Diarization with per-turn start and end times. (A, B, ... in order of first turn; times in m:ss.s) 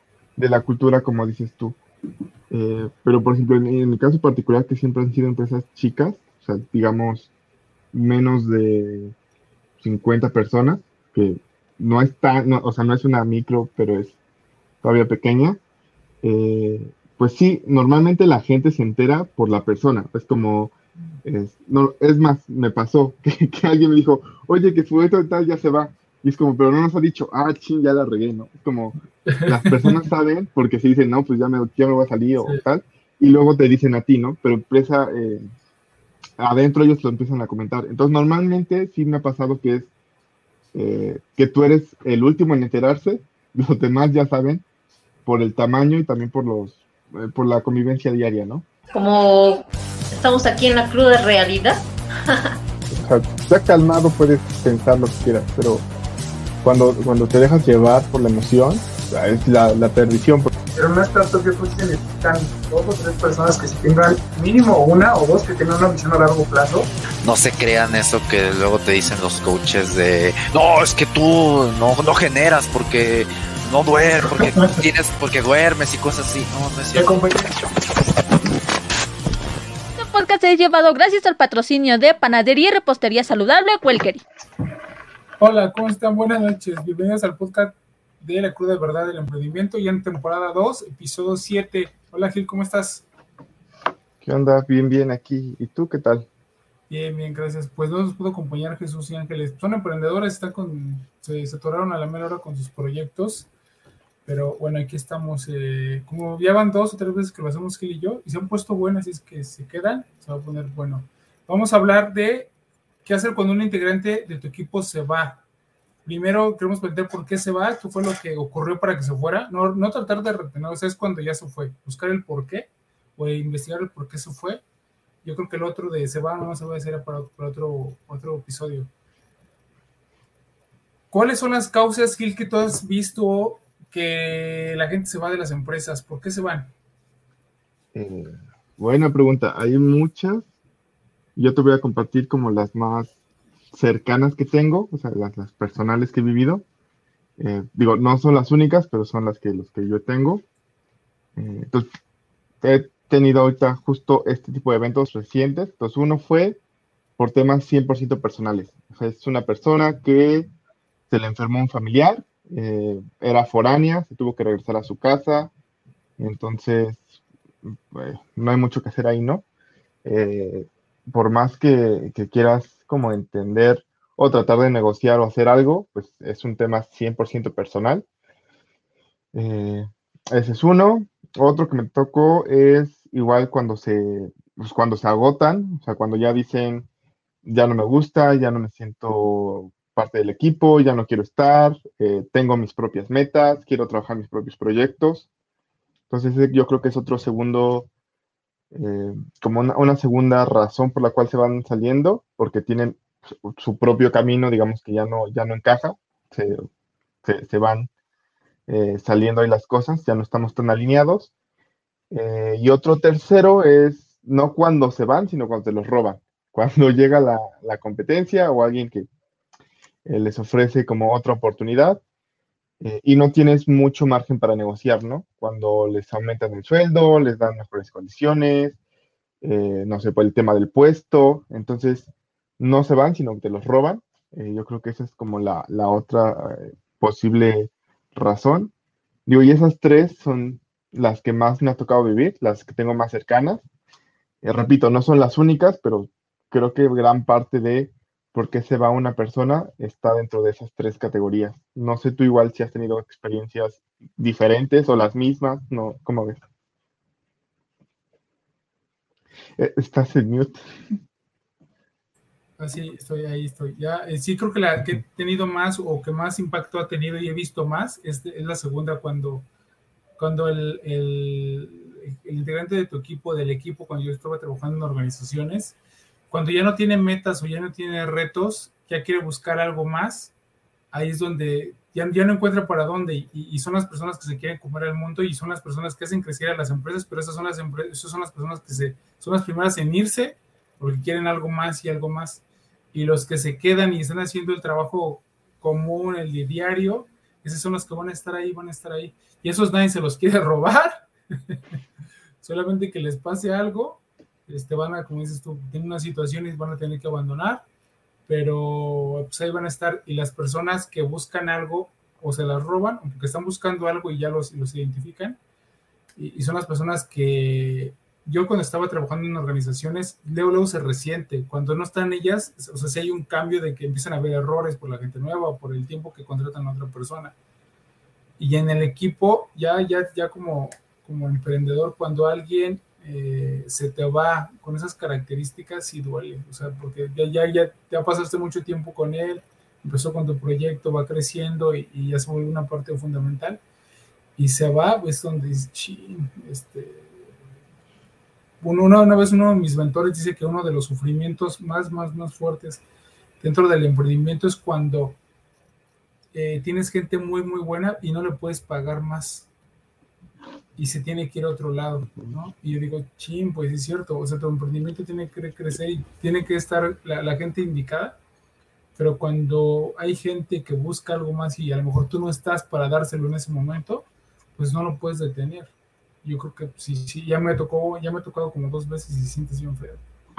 0:00.4-0:01.8 A
0:02.5-0:07.3 A
0:07.9-0:09.1 A
0:09.8-0:14.2 A
0:14.8-0:15.6 A
0:16.2-0:20.7 A
0:21.2-0:35.5 A
0:29.3-0:30.0 B
0:36.4-0:39.9 A
0:40.7-0:44.6 A
0:45.2-0:48.6 A
0:48.9-0:52.5 C
0:52.9-0:55.8 A
0:56.6-1:00.5 A
1:00.7-1:06.9 B
1:07.2-1:17.2 D
1:14.5-1:14.8 B
1:16.9-1:17.5 B
1:20.0-1:24.2 E
1:25.4-1:33.0 B
1:34.2-1:36.3 A
1:36.9-1:43.5 B
1:44.2-1:52.5 B
1:53.0-1:55.4 B
1:56.0-2:04.6 B
2:05.2-2:08.9 B
2:11.1-2:16.7 B
2:17.9-2:20.4 A
2:21.4-2:23.1 A
2:23.7-2:26.6 A
2:27.4-2:30.4 A
2:31.4-2:31.9 A
2:32.6-2:36.6 A
2:37.2-2:40.5 A
2:41.1-2:45.5 A
2:46.2-2:49.4 A
2:50.0-2:58.0 A
2:59.3-3:06.9 A
3:07.4-3:15.3 A
3:16.1-3:17.9 A
3:18.7-3:26.7 A
3:27.2-3:27.9 A
3:28.7-3:31.3 A
3:32.1-3:39.1 A
3:40.0-3:42.0 A
3:42.8-3:48.8 A
3:49.4-3:58.7 A
3:59.2-4:03.6 A
4:04.4-4:16.4 A
4:19.6-4:20.6 A
4:22.6-4:29.4 B
4:30.2-4:35.8 B
4:36.3-4:40.3 B
4:40.9-4:52.4 B
4:52.9-5:01.8 B
5:02.4-5:07.6 B
5:08.3-5:15.4 B
5:16.2-5:27.3 B
5:28.4-5:43.6 B
5:44.4-5:47.3 B
5:48.6-5:52.8 B
5:53.4-5:55.2 B
5:56.3-5:59.5 B
6:00.8-6:08.2 B
6:09.0-6:15.7 B
6:16.2-6:20.0 B